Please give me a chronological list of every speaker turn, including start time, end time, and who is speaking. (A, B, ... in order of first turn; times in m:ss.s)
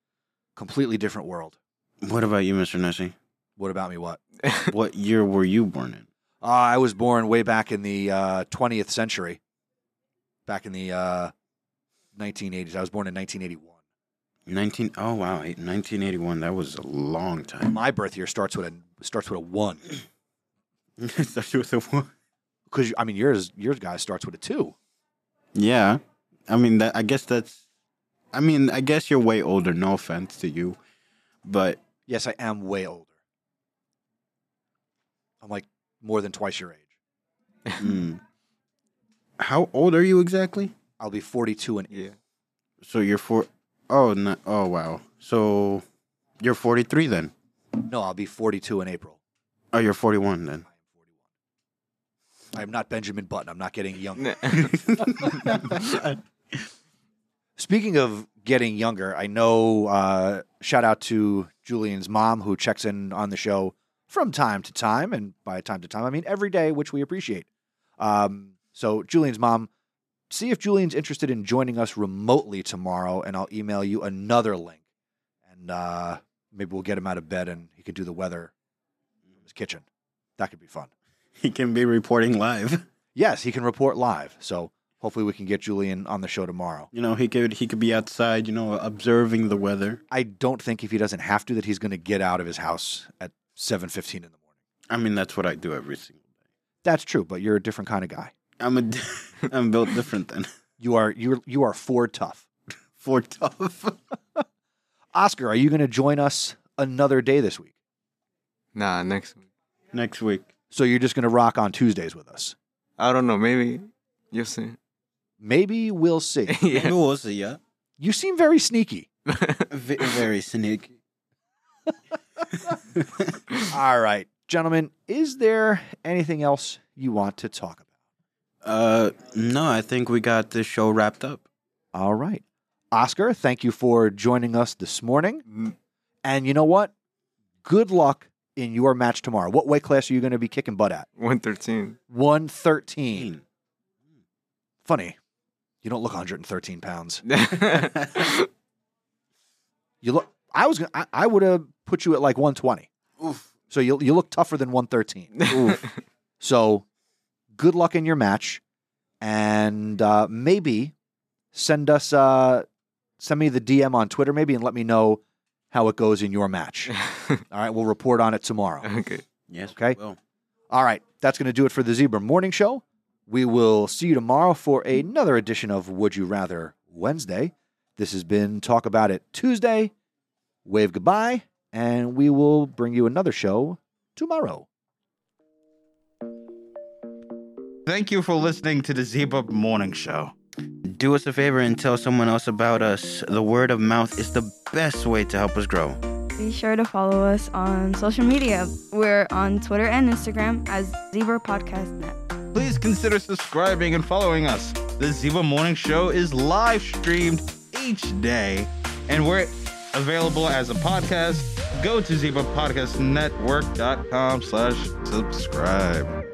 0:00.6-0:01.6 A
0:02.0-0:03.1 B
0:03.6-0:04.2 A
0:04.7-0:06.1 B
0:06.4-0:09.4 A
0:10.5-0:11.3 A
0:12.1-0:13.8 A
0:14.5-0:17.8 B
0:17.6-0:19.8 A
0:21.0-0:22.1 B
0:22.7-0:24.8 A
0:25.6-0:27.6 B
0:28.3-0:30.8 B
0:31.4-0:31.8 B
0:32.1-0:33.1 A
0:35.4-0:36.9 A
0:37.8-0:38.2 B
0:39.4-0:40.7 B
0:41.0-0:42.1 A
0:42.8-0:45.8 B
0:46.4-0:47.3 B
0:47.9-0:49.2 A
0:49.7-0:50.6 B
0:52.5-0:55.3 A
0:54.2-0:54.7 C
0:54.6-0:56.2 B
0:57.6-1:07.5 A
1:08.0-1:09.7 A
1:10.3-1:14.8 A
1:15.5-1:18.5 A
1:19.4-1:19.9 A
1:20.4-1:20.9 A
1:21.4-1:22.8 B
1:23.1-1:26.9 A
1:26.9-1:30.0 B
1:30.1-1:34.4 A
1:34.9-1:36.2 B
1:36.8-1:38.3 A
1:38.6-1:40.5 B
1:40.8-1:42.4 A
1:43.0-1:44.2 B
1:45.1-1:47.7 A
1:48.8-1:49.4 C
1:49.9-1:50.5 B
1:50.7-1:52.6 A
1:53.0-1:54.8 C
1:55.4-1:56.6 A
1:56.5-1:57.0 C
1:56.7-1:57.6 B
1:58.0-1:59.1 A
1:59.3-1:59.7 C
1:59.7-2:00.9 B
2:02.7-2:03.4 B
2:03.7-2:07.8 A
2:08.6-2:11.4 B
2:11.9-2:15.4 A
2:16.2-2:16.9 A
2:17.6-2:21.1 A
2:21.2-2:22.0 C
2:22.1-2:23.3 A
2:23.1-2:23.4 B
2:24.8-2:25.2 A
2:25.8-2:27.8 A
2:27.3-2:28.4 C
2:30.0-2:32.9 A
2:33.2-2:33.5 B
2:33.7-2:35.8 A
2:35.4-2:35.8 C
2:35.5-2:35.8 B
2:36.4-2:36.8 A
2:37.6-2:38.6 A
2:39.2-2:40.9 A
2:41.5-2:42.6 A
2:43.2-2:47.0 A
2:47.5-2:48.9 A
2:48.8-2:49.2 C
2:49.5-2:50.2 B
2:49.7-2:50.0 A
2:50.7-2:59.9 A
3:00.6-3:04.7 A
3:07.9-3:10.3 D
3:10.8-3:16.0 B
3:16.4-3:22.2 E
3:22.5-3:36.1 D